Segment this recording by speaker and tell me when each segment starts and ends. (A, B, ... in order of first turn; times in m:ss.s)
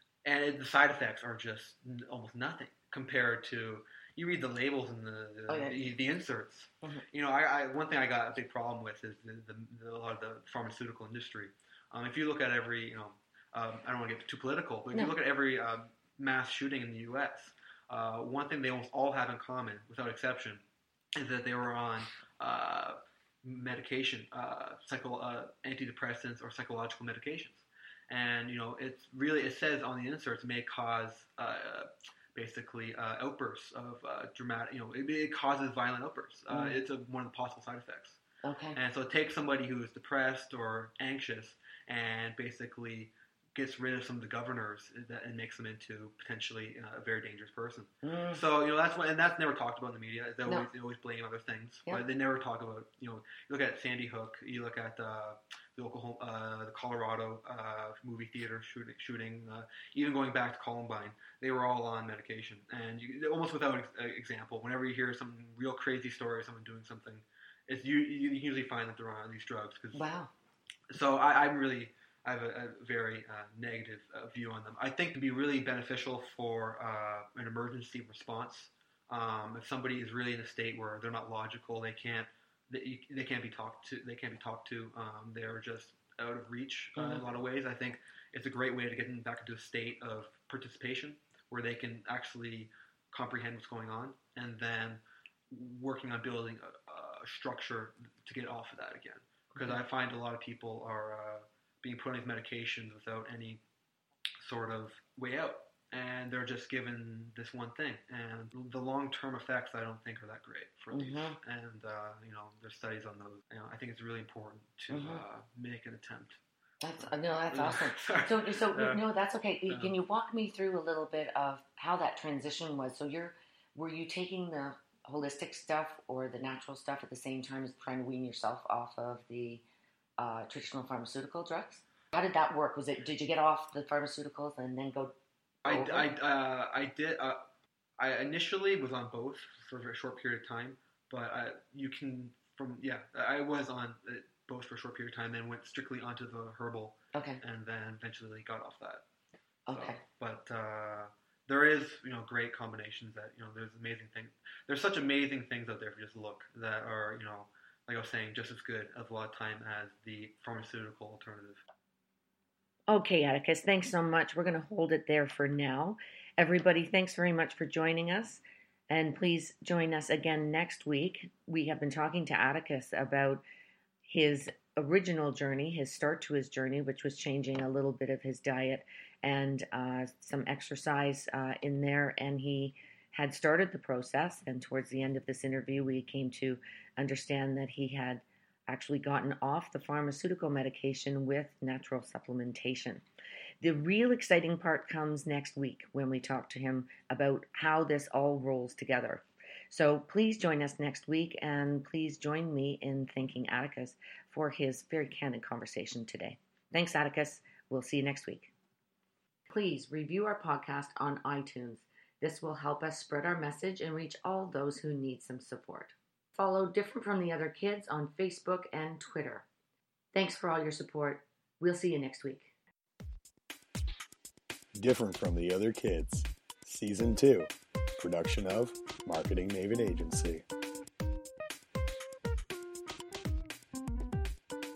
0:00.2-0:20.6 A
0:05.5-0:05.9 B
0:21.2-0:38.2 A
0:36.5-0:36.8 B
0:38.4-0:38.8 B
0:38.7-1:10.0 A
0:48.0-0:48.4 B
1:09.9-1:10.3 B
1:10.9-1:43.6 A
1:27.0-1:27.2 B
1:44.4-1:56.4 A
1:50.9-1:51.4 B
1:54.9-1:55.2 B
1:56.8-2:09.6 B
1:57.0-1:59.1 A
1:59.7-1:59.9 A
2:10.2-2:15.1 B
2:15.6-2:16.1 B
2:15.6-2:17.4 A
2:18.0-2:29.0 A
2:27.1-2:27.4 B
2:29.7-2:30.0 B
2:29.7-2:41.6 A
2:42.9-2:53.4 B
2:54.0-3:13.0 B
3:13.6-3:28.5 B
3:29.5-3:39.4 B
3:40.1-3:42.5 B
3:44.7-3:50.4 C